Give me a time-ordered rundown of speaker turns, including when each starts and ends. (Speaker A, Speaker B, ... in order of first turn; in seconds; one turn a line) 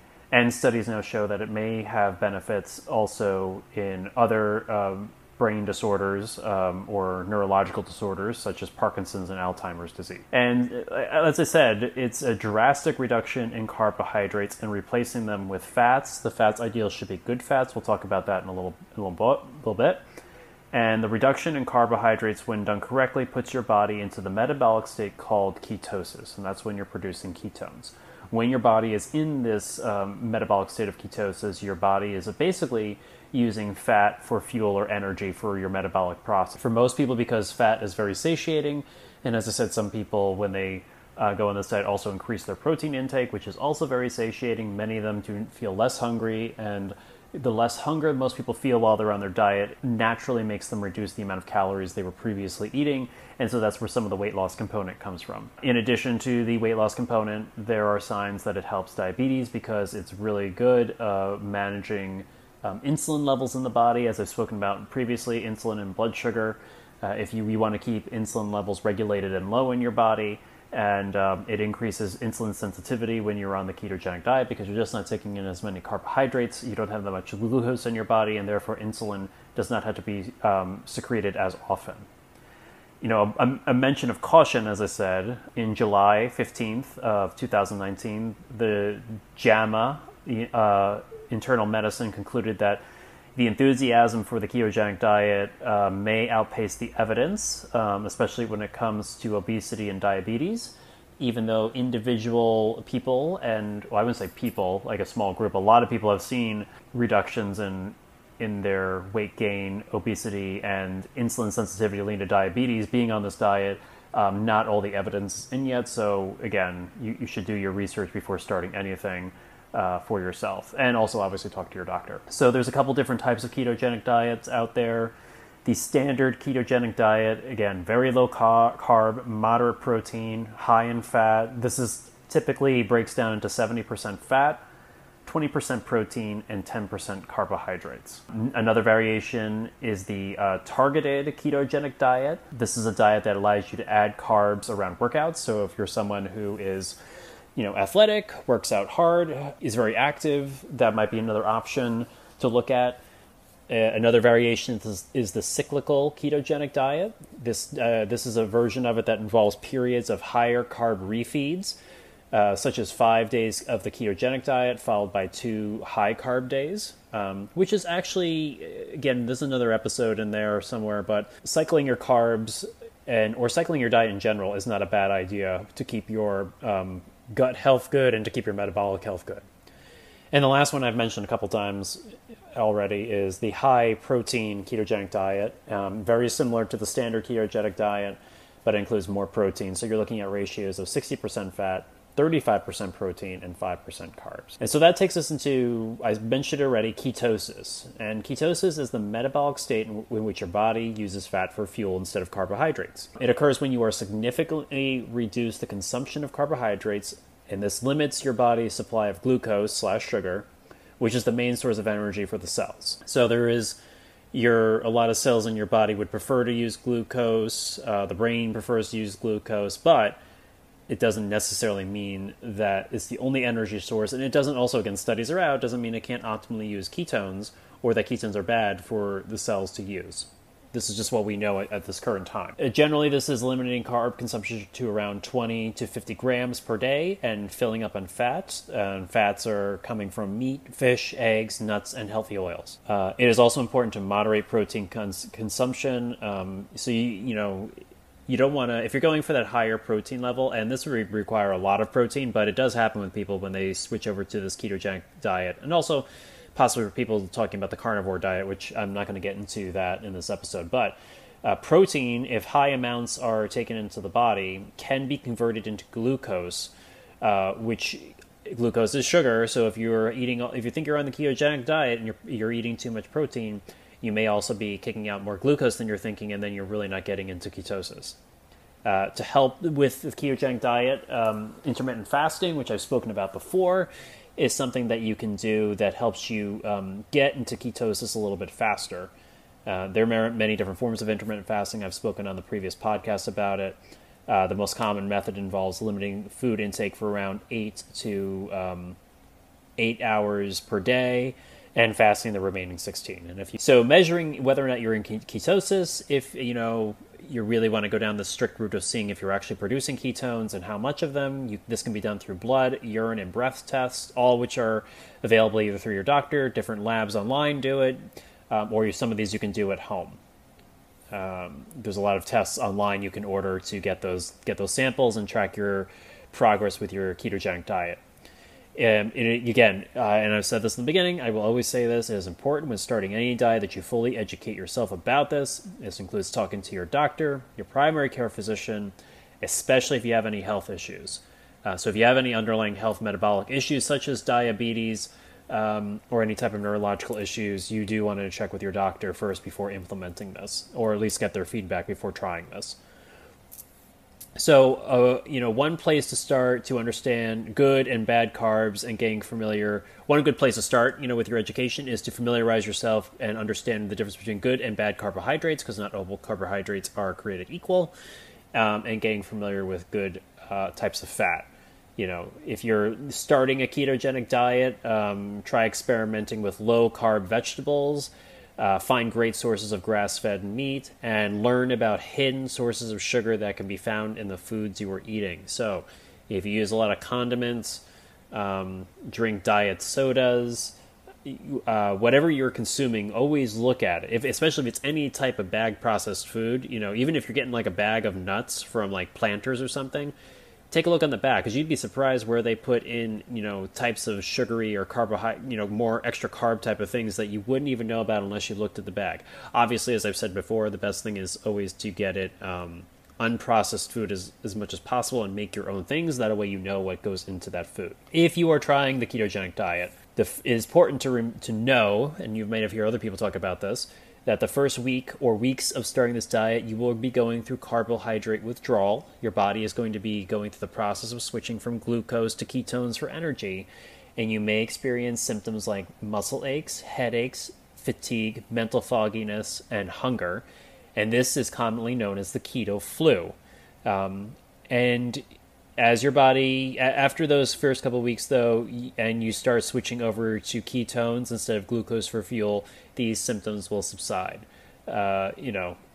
Speaker A: 0.3-20.0
Speaker A: 20.7-82.1
Speaker A: 83.0-92.8
Speaker A: 93.4-125.1
Speaker A: 125.7-134.6
Speaker A: 135.3-147.0
Speaker A: 147.6-153.0
Speaker A: 153.7-161.8
Speaker A: 162.3-179.4
Speaker A: 180.3-182.0
Speaker A: 182.6-210.5
Speaker A: 211.0-213.8
Speaker A: 214.3-220.2
Speaker A: 220.9-247.7
Speaker A: 248.3-278.2
Speaker A: 278.8-289.1
Speaker A: 289.7-299.0
Speaker A: 299.8-320.2
Speaker A: 321.1-328.0
Speaker A: 328.8-352.8
Speaker A: 354.4-367.9
Speaker A: 368.5-400.1
Speaker A: 400.7-445.2
Speaker A: 445.8-455.8